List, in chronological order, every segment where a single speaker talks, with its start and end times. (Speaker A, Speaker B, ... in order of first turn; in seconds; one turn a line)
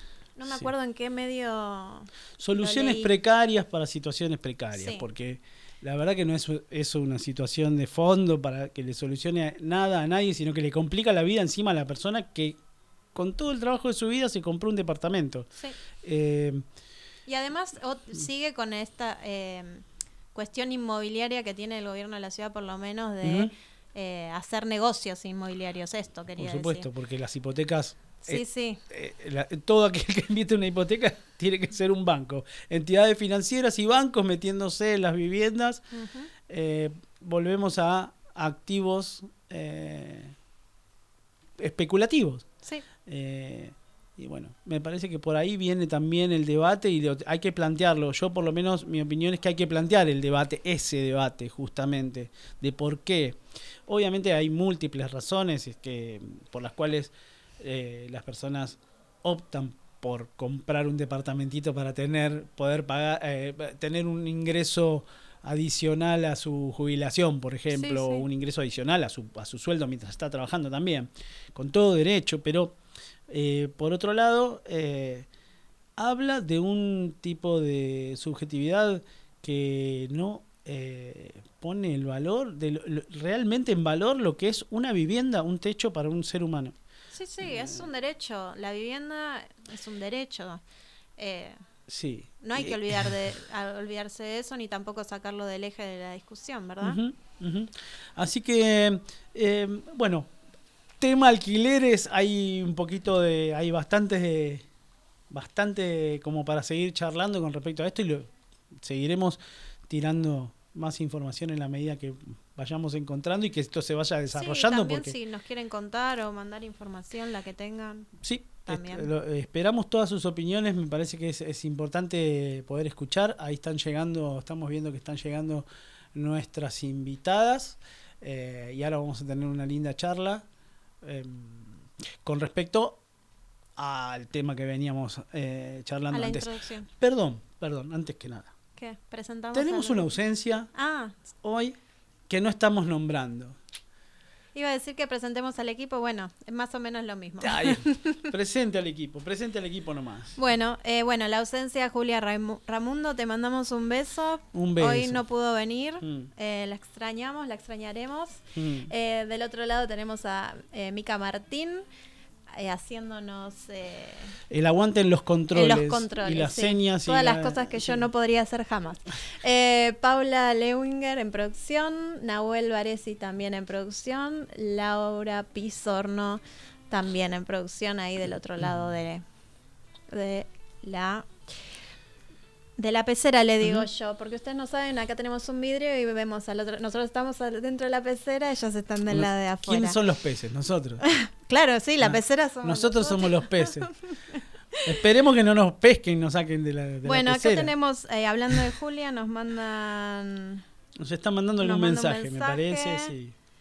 Speaker A: 0.4-3.1
Speaker B: 2.4-12.6
Speaker A: 4.8-5.0
Speaker B: 13.1-15.5
Speaker B: 16.0-16.6
Speaker A: 17.3-26.9
Speaker B: 23.2-23.5
Speaker B: 26.4-35.9
Speaker A: 28.2-28.8
Speaker A: 35.9-36.3
Speaker B: 36.5-40.4
Speaker B: 41.6-42.5
Speaker B: 43.1-72.8
Speaker A: 67.7-68.3
Speaker B: 73.3-75.3
Speaker B: 76.0-86.8
Speaker A: 87.1-90.6
Speaker B: 87.4-87.9
Speaker A: 91.2-91.6
Speaker B: 91.9-93.1
Speaker A: 92.4-97.0
Speaker B: 96.8-100.3
Speaker B: 101.0-104.7
Speaker B: 105.3-115.2
Speaker A: 114.3-118.1
Speaker B: 118.2-130.4
Speaker A: 118.7-119.1
Speaker B: 131.0-133.0
Speaker B: 133.8-138.5
Speaker A: 136.1-136.9
Speaker A: 138.8-140.1
Speaker B: 139.5-140.7
Speaker A: 140.7-141.2
Speaker B: 141.4-141.8
Speaker B: 142.3-143.6
Speaker A: 144.6-148.3
Speaker B: 147.4-150.4
Speaker A: 150.4-161.8
Speaker B: 154.5-155.2
Speaker B: 156.0-156.3
Speaker B: 158.6-158.9
Speaker A: 162.6-164.3
Speaker B: 164.5-168.1
Speaker A: 165.5-179.2
Speaker A: 180.1-181.4
Speaker A: 182.8-190.0
Speaker B: 183.6-183.9
Speaker B: 189.1-191.0
Speaker A: 191.1-193.8
Speaker B: 192.0-193.9
Speaker B: 194.8-197.7
Speaker A: 197.1-200.6
Speaker B: 201.0-203.3
Speaker A: 201.6-203.1